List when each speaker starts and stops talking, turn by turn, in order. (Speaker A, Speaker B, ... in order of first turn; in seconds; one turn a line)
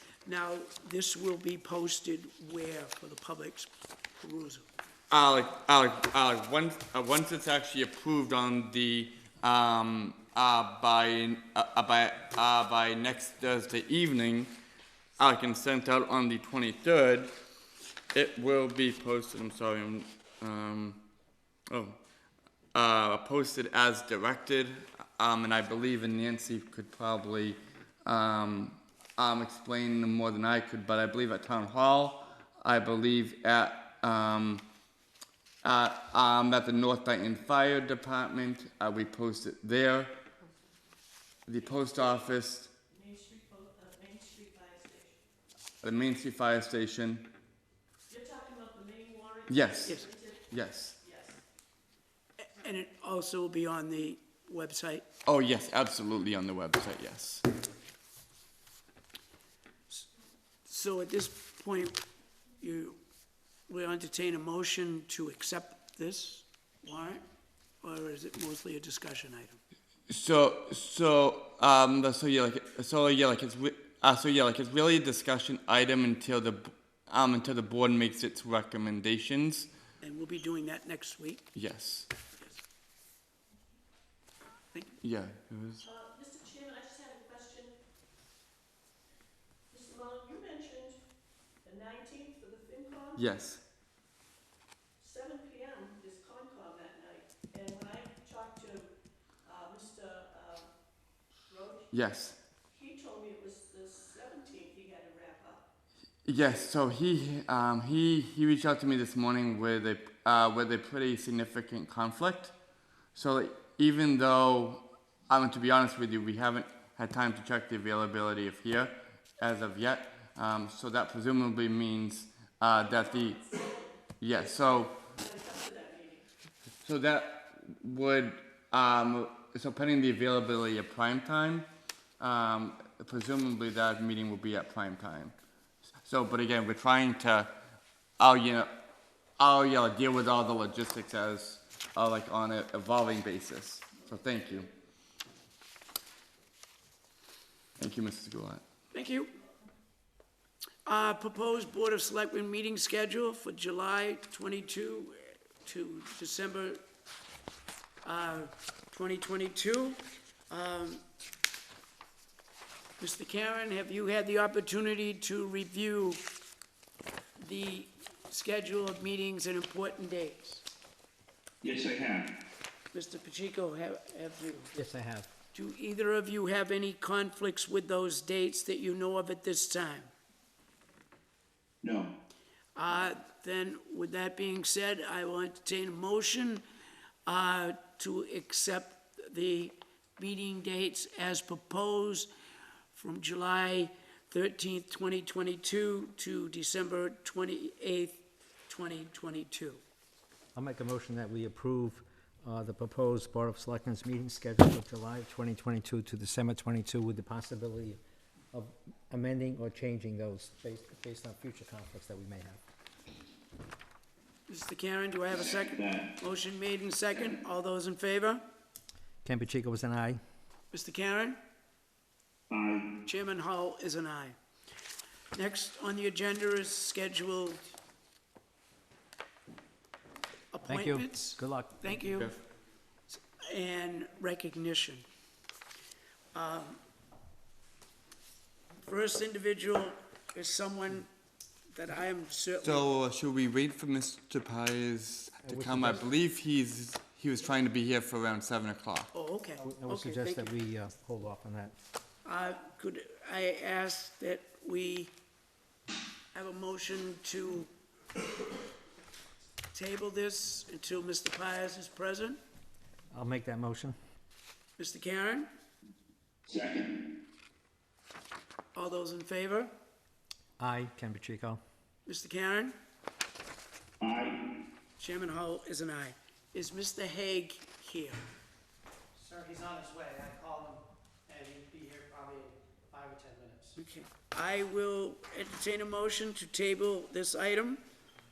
Speaker A: 0.3-4.7
Speaker B: 5.1-14.5
Speaker B: 15.2-17.3
Speaker B: 18.1-21.1
Speaker B: 21.7-22.0
Speaker B: 22.7-34.6
Speaker B: 35.6-40.1
Speaker B: 41.5-42.7
Speaker C: 42.9-45.2
Speaker B: 45.8-47.3
Speaker C: 48.1-50.4
Speaker B: 49.5-51.0
Speaker C: 51.0-51.4
Speaker A: 52.5-55.0
Speaker B: 55.3-57.4
Speaker A: 60.6-62.0
Speaker A: 62.6-63.0
Speaker A: 63.7-67.2
Speaker A: 67.8-69.6
Speaker B: 70.1-79.7
Speaker A: 80.0-81.5
Speaker B: 81.5-82.1
Speaker B: 85.0-85.9
Speaker C: 85.9-87.7
Speaker C: 89.7-91.0
Speaker C: 91.7-93.2
Speaker B: 93.2-93.6
Speaker C: 95.0-98.9
Speaker C: 99.5-100.7
Speaker C: 101.5-101.9
Speaker B: 101.9-102.4
Speaker C: 102.7-105.6
Speaker B: 106.3-112.5
Speaker B: 113.1-123.4
Speaker C: 123.1-123.6
Speaker B: 124.2-125.0
Speaker C: 124.3-126.2
Speaker B: 126.8-131.7
Speaker B: 132.2-135.3
Speaker B: 136.1-137.5
Speaker B: 138.2-138.7
Speaker B: 139.4-144.7
Speaker B: 147.8-148.6
Speaker A: 148.9-149.3
Speaker A: 150.9-156.8
Speaker A: 158.1-161.0
Speaker A: 163.0-166.2
Speaker A: 167.4-170.7
Speaker D: 171.6-172.3
Speaker A: 172.9-174.7
Speaker E: 174.7-175.3
Speaker A: 175.5-180.1
Speaker D: 181.8-182.2
Speaker A: 182.8-186.7
Speaker A: 187.3-192.3
Speaker A: 192.9-199.8
Speaker E: 200.6-208.0
Speaker E: 208.5-212.6
Speaker A: 214.5-218.4
Speaker D: 215.4-216.1
Speaker E: 219.2-220.2
Speaker A: 220.7-221.4
Speaker D: 222.5-223.0
Speaker A: 223.1-224.4
Speaker A: 225.3-227.7
Speaker A: 230.5-232.3
Speaker E: 230.7-231.9
Speaker A: 233.1-235.0
Speaker A: 236.3-236.8
Speaker A: 238.8-241.1
Speaker A: 241.7-242.9
Speaker B: 242.6-249.1
Speaker E: 245.5-246.0
Speaker A: 249.1-250.5
Speaker E: 249.6-251.8
Speaker A: 252.2-255.1
Speaker A: 256.3-257.7
Speaker A: 259.7-262.4
Speaker E: 263.1-264.0
Speaker A: 264.8-265.5
Speaker D: 266.5-267.1
Speaker A: 268.7-269.7
Speaker E: 270.6-271.6
Speaker A: 272.1-272.8
Speaker D: 274.0-274.5
Speaker A: 275.0-278.3
Speaker F: 279.2-283.8
Speaker A: 283.8-287.8